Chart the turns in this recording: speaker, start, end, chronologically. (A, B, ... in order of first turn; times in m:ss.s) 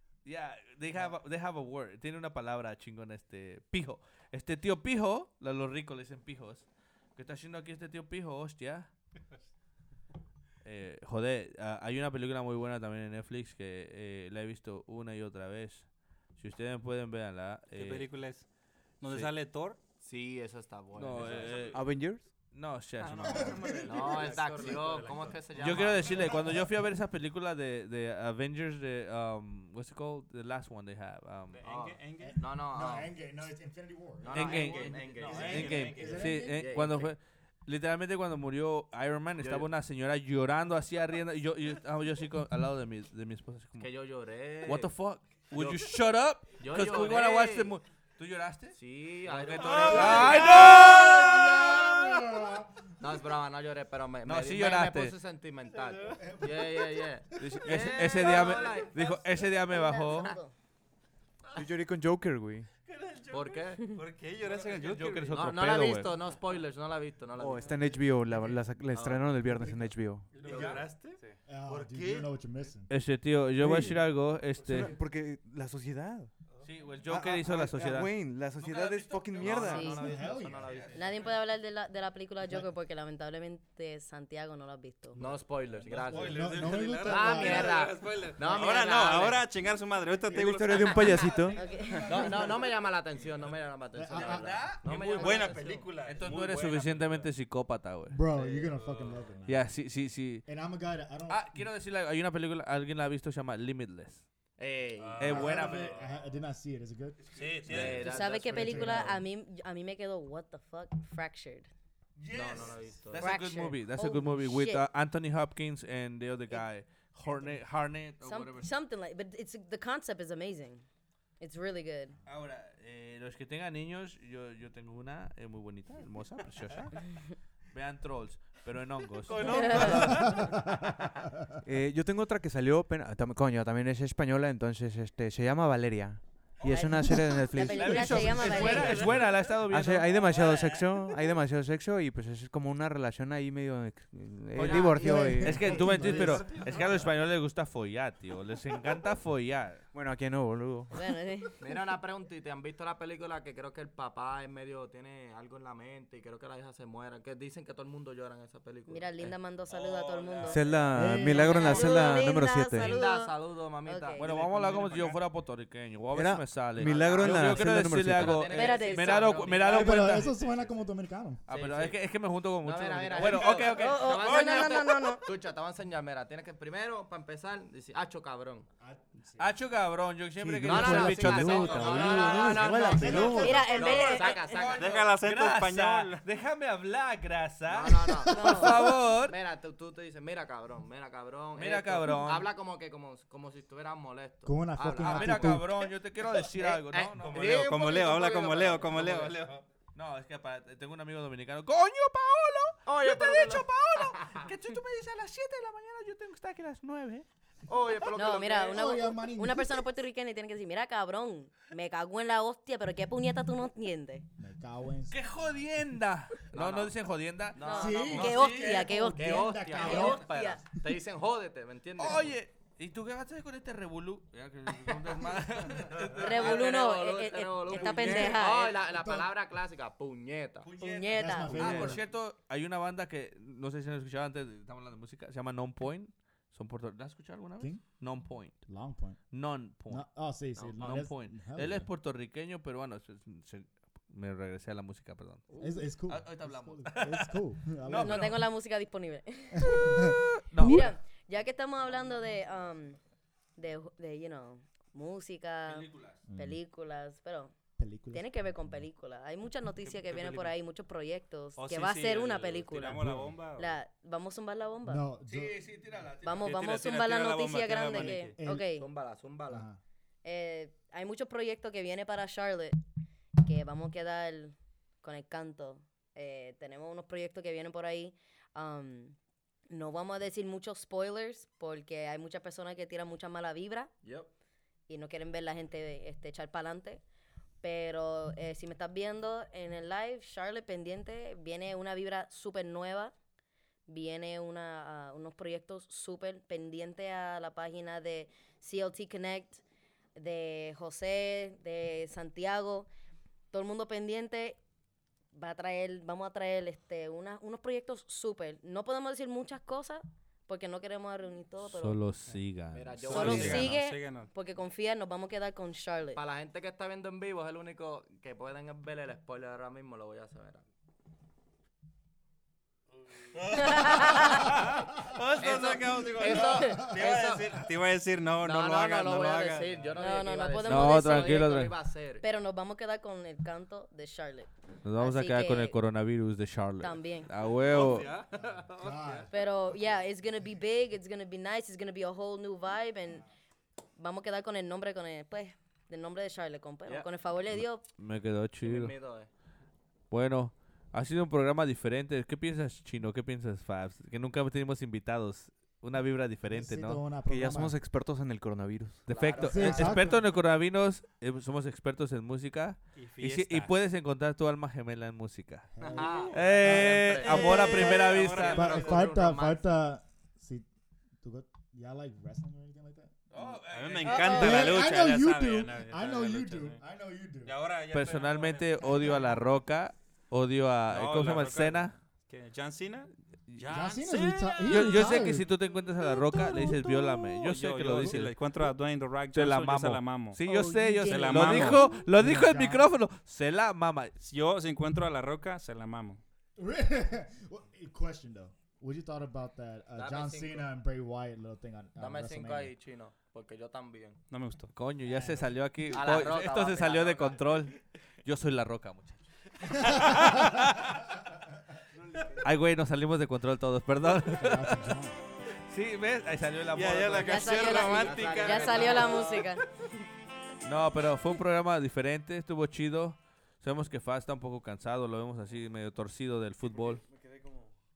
0:00.2-0:08.9 A
0:10.6-0:18.4 A
0:17.7-0:19.8 B
0:19.4-0:21.8 C
0:20.9-0:23.8 A
0:21.6-0:22.4 D
0:23.0-0:26.5 B
0:23.2-0:24.4 E
0:23.8-0:26.5 C
0:25.5-0:31.6 A
0:26.1-0:26.7 E
0:31.5-0:32.4 B
0:31.6-0:33.1 C
0:32.2-0:36.7 E
0:34.2-0:37.1 C
0:34.3-0:51.7 A
0:34.3-0:36.4 B
0:39.4-0:39.7 C
0:43.8-0:45.0 C
0:45.5-0:45.9 C
0:46.4-0:47.7 C
0:48.7-0:51.5 C
0:49.6-0:50.1 B
0:49.9-0:53.0 E
0:53.0-0:59.3 C
0:54.2-0:55.2 A
0:55.6-0:56.4 B
0:56.2-0:57.8 E
0:57.4-1:00.3 A
0:58.1-0:58.9 B
0:59.5-1:00.5 F
1:01.5-1:02.7 D
1:02.8-1:05.5 B
1:03.3-1:04.0 C
1:04.6-1:06.2 A
1:05.3-1:08.0 C
1:07.4-1:10.4 D
1:08.9-1:09.3 C
1:09.4-1:10.9 E
1:10.3-1:12.7 B
1:10.4-1:11.4 A
1:11.4-1:12.9 E
1:12.9-1:15.0 A
1:13.6-1:16.3 D
1:16.5-1:16.8 B
1:16.6-1:21.0 A
1:17.0-1:20.2 D
1:19.2-1:19.6 B
1:19.4-1:21.3 C
1:19.6-1:20.0 F
1:19.9-1:20.7 E
1:20.9-1:25.2 F
1:25.2-1:29.5 C
1:25.8-1:31.6 B
1:26.1-1:28.0 E
1:26.3-1:26.6 A
1:30.3-1:31.7 D
1:31.5-1:32.2 F
1:31.6-1:32.5 E
1:32.0-1:35.9 C
1:33.9-1:34.8 E
1:34.1-1:38.2 A
1:35.1-1:37.3 B
1:38.1-1:41.7 E
1:38.3-1:38.8 C
1:38.7-1:39.3 B
1:39.4-1:40.5 A
1:41.2-1:44.5 A
1:44.6-1:45.5 C
1:45.0-1:45.9 B
1:45.2-1:46.1 A
1:45.2-1:49.2 E
1:47.3-1:48.3 B
1:47.7-1:49.2 C
1:47.8-1:48.1 A
1:48.0-1:51.7 F
1:52.2-1:52.9 E
1:52.3-1:53.5 C
1:53.1-1:58.7 A
1:53.1-1:54.9 F
1:56.5-1:56.9 F
1:58.0-2:02.2 F
2:02.2-2:10.6 A
2:09.3-2:10.1 F
2:09.7-2:10.4 D
2:09.9-2:10.6 E
2:11.6-2:18.5 D
2:16.6-2:16.9 A
2:16.6-2:19.1 F
2:17.6-2:20.5 A
2:18.1-2:19.2 E
2:18.6-2:19.5 B
2:19.6-2:26.4 D
2:20.1-2:20.8 B
2:24.6-2:29.9 A
2:24.6-2:26.9 C
2:24.9-2:26.9 E
2:29.9-2:30.9 D
2:30.9-2:31.6 F
2:31.6-2:45.2 C
2:38.9-2:44.3 F
2:40.4-2:43.0 D
2:40.9-2:41.6 E
2:44.2-2:50.3 A
2:46.1-2:48.5 D
2:46.6-2:50.6 C
2:48.5-2:49.5 F
2:49.6-2:51.4 E
2:51.4-2:54.5 A
2:51.5-2:58.7 C
2:53.3-2:55.3 F
2:58.8-2:59.6 E
2:59.4-3:09.4 A
3:00.4-3:03.8 D
3:00.6-3:05.0 C
3:02.9-3:04.0 E
3:03.1-3:04.7 F
3:04.8-3:06.2 B
3:07.7-3:19.4 C
3:08.3-3:08.8 F
3:11.5-3:12.5 A
3:14.4-3:15.8 E
3:15.0-3:18.0 A
3:17.2-3:19.6 B
3:19.9-3:27.3 A
3:22.8-3:24.5 C
3:27.6-3:28.8 C
3:28.1-3:34.3 F
3:28.7-3:29.8 E
3:34.4-3:35.4 E
3:35.1-3:39.0 A
3:36.5-3:37.0 C
3:37.5-3:38.6 C
3:37.6-3:40.6 F
3:37.7-3:40.5 E
3:39.1-3:42.4 C
3:39.8-3:40.2 A
3:42.0-3:46.8 A
3:46.0-3:50.7 C
3:46.2-3:48.8 F
3:47.7-3:48.4 A
3:47.8-3:49.3 E
3:50.6-4:00.1 A
3:50.8-3:52.0 F
3:51.1-3:52.1 E
3:57.6-4:01.9 E
4:00.5-4:01.1 C
4:00.8-4:08.4 A
4:05.5-4:05.9 C
4:05.6-4:08.4 E
4:07.9-4:25.0 F
4:10.5-4:11.0 A
4:10.6-4:10.9 E
4:15.6-4:16.2 A
4:16.3-4:16.6 E
4:17.8-4:18.8 E
4:19.8-4:20.5 C
4:21.6-4:23.8 B
4:23.0-4:23.3 E
4:24.8-4:25.8 E
4:25.2-4:26.8 A
4:26.2-4:28.9 F
4:26.4-4:28.4 B
4:28.0-4:28.7 E
4:28.7-4:29.7 C
4:29.5-4:29.8 E
4:30.2-4:32.8 F
4:33.4-4:39.2 F
4:39.7-4:43.9 F
4:44.0-4:44.3 C
4:44.9-4:47.0 F
4:47.6-4:53.1 F
4:53.9-4:59.6 F
5:00.2-5:02.9 F
5:03.5-5:04.6 F
5:05.3-5:12.0 F
5:11.6-5:13.8 A
5:12.7-5:13.7 C
5:13.0-5:14.3 B
5:13.1-5:16.2 F
5:16.1-5:20.6 C
5:23.3-5:29.8 B
5:23.5-5:24.5 F
5:25.4-5:27.6 C
5:28.4-5:32.2 C
5:29.9-5:35.8 F
5:30.6-5:31.8 A
5:34.8-5:38.2 A
5:36.8-5:37.3 F
5:37.6-5:39.3 B
5:38.3-5:39.4 E
5:39.3-5:43.3 F
5:44.0-5:47.8 F
5:47.5-5:49.1 A
5:48.6-5:49.3 C
5:50.1-5:57.2 A
5:56.5-5:57.8 E
5:57.2-5:59.1 D
5:59.0-6:08.9 A
5:59.1-6:00.2 C
5:59.3-6:00.2 E
6:02.9-6:03.8 B
6:05.7-6:17.6 E
6:05.8-6:09.6 C
6:07.3-6:09.1 B
6:13.3-6:14.9 A
6:13.7-6:16.8 B
6:17.4-6:19.2 B
6:17.9-6:22.0 A
6:20.9-6:24.3 B
6:23.3-6:24.0 A
6:23.7-6:25.5 E
6:24.1-6:25.2 F
6:24.6-6:34.2 A
6:27.4-6:31.9 B
6:30.4-6:32.8 E
6:34.2-6:36.2 B
6:36.6-6:42.7 E
6:40.0-6:40.7 C
6:42.0-6:44.2 C
6:44.3-6:44.7 B
6:44.7-6:51.1 A
6:45.0-6:45.7 E
6:45.9-6:47.5 C
6:49.9-6:50.4 E
6:52.4-6:54.9 A
6:54.4-6:55.2 E
6:55.6-6:58.0 A
6:56.7-6:59.0 B
6:57.2-6:59.6 F
6:57.6-6:59.4 C
7:00.6-7:07.0 A
7:06.6-7:07.8 D